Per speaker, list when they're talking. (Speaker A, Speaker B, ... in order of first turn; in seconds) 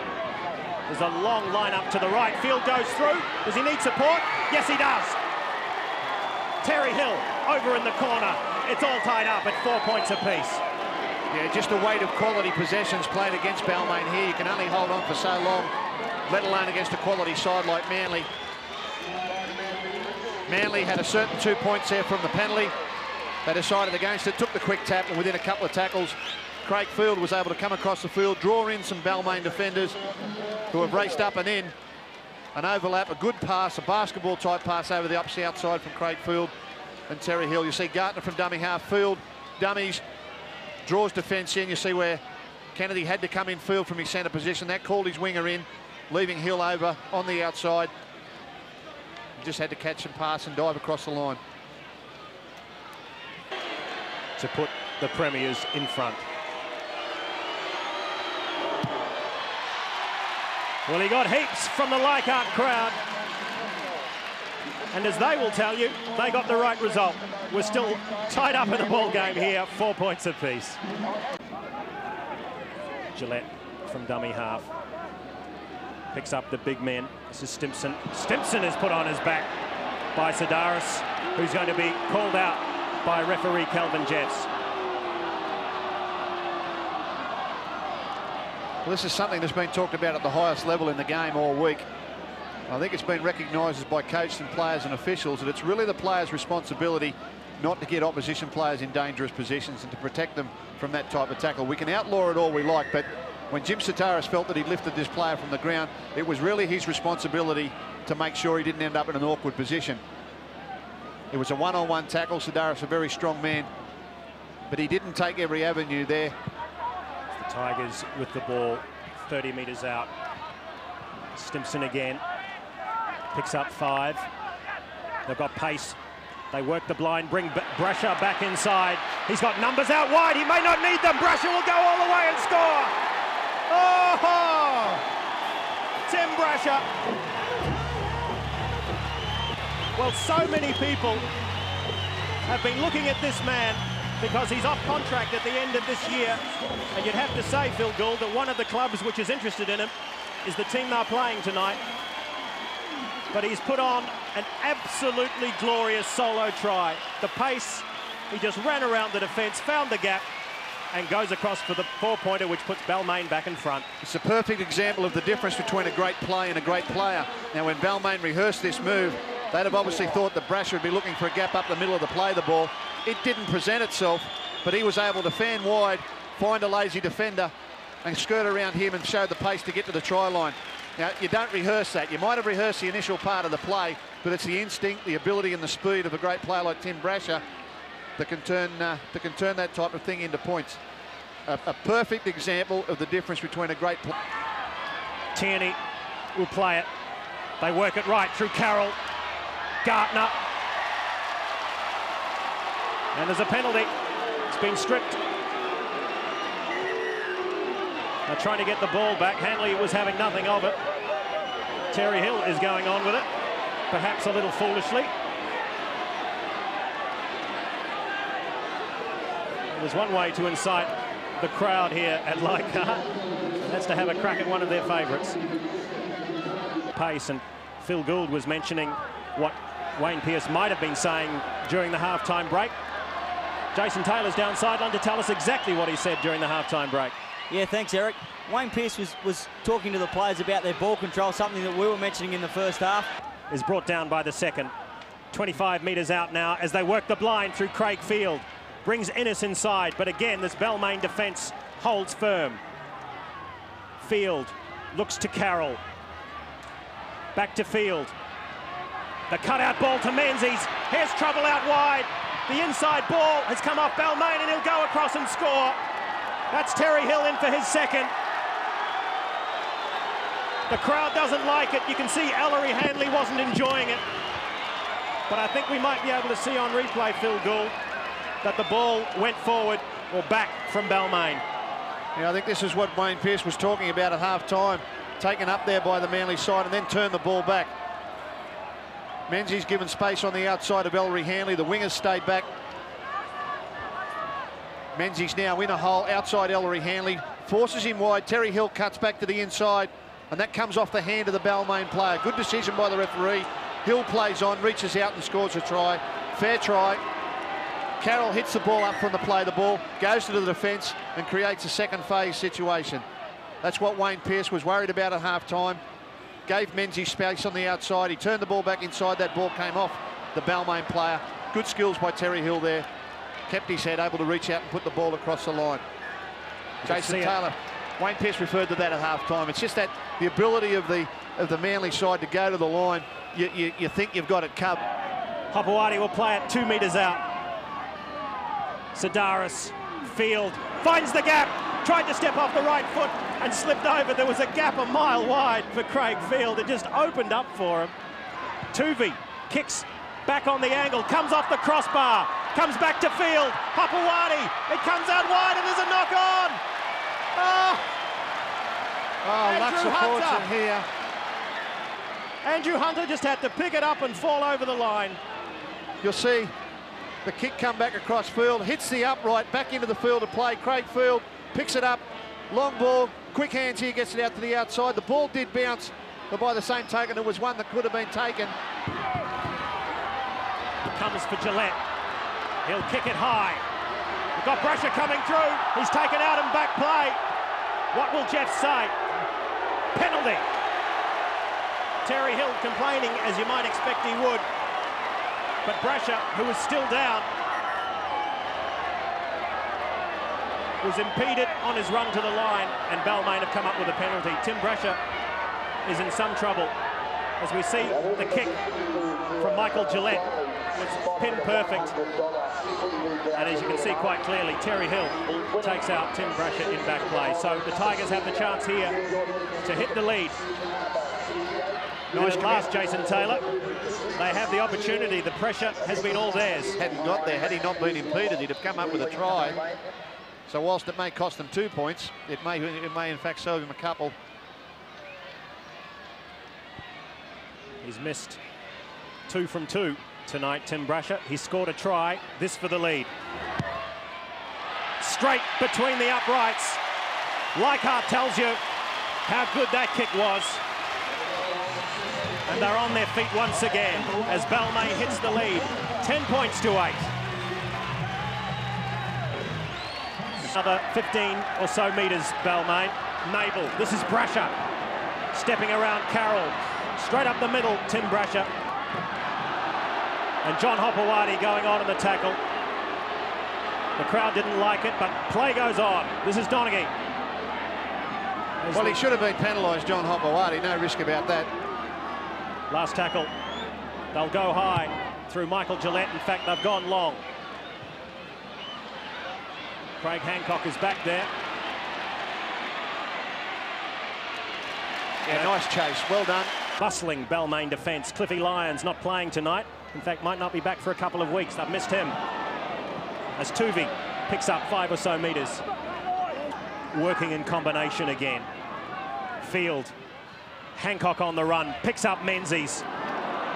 Speaker A: 0.9-5.2, 6.6-10.6, 54.4-56.2, 60.9-63.0, 64.9-70.8, 73.1-74.7, 76.1-79.5, 80.1-84.5, 117.3-120.1, 121.3-122.2, 123.3-124.3, 125.2-126.0, 126.5-132.9, 133.7-135.0, 136.0-136.8, 139.9-141.3, 142.5-146.4, 146.9-149.9, 150.4-151.8, 153.3-160.2, 160.9-163.9, 195.3-195.8, 196.3-196.9, 197.6-199.0, 199.8-200.4, 203.1-203.9, 204.5-205.2, 208.2-210.8, 211.9-213.3, 213.9-215.1, 219.7-223.1, 223.6-225.4, 226.9-232.7, 233.7-237.1, 243.5-244.7, 245.3-252.6, 254.0-255.8, 257.3-258.1, 259.3-265.8, 266.5-268.1, 270.7-274.0, 275.3-277.7, 278.4-281.4, 326.8-327.4, 335.5-337.2, 338.9-347.9, 348.7-356.6, 357.4-357.9, 359.4-360.5, 362.4-365.2, 380.9-381.8, 382.6-383.6, 384.3-387.2, 387.9-388.9, 389.9-390.4, 392.0-394.4, 395.6-397.3, 400.8-405.0, 405.8-406.7, 407.4-408.6, 409.3-412.0, 413.3-419.0, 419.6-420.4, 422.1-423.4, 424.1-426.8, 437.8-438.4, 439.3-443.1, 445.0-446.8, 447.5-448.6, 449.2-450.6, 452.4-457.1, 460.4-464.5, 465.3-468.5, 470.4-472.4, 474.0-476.9, 478.6-479.0, 482.7-483.3, 484.1-487.2, 490.0-491.3, 495.3-495.5, 496.8-502.2, 503.4-505.6, 506.9-508.5, 509.4-509.9, 510.7-512.8
Speaker B: 11.3-15.7, 16.3-18.3, 20.5-22.7, 23.4-30.0, 30.7-31.7, 32.5-36.5, 37.1-40.0, 40.8-42.2, 42.7-47.9, 49.4-51.4, 88.8-91.9, 92.7-110.0, 111.3-113.7, 114.7-116.3, 164.0-177.5, 178.0-187.4, 188.2-190.8, 191.4-194.1, 282.1-287.7, 289.3-292.5, 294.9-307.0, 308.0-313.1, 313.6-315.8, 316.5-322.9, 323.5-325.8, 326.8-334.8, 359.2-360.9, 366.0-366.5, 367.2-378.5, 422.1-422.7, 426.8-429.6, 430.5-434.1, 478.7-481.5, 495.2-496.5
Speaker C: 237.5-243.1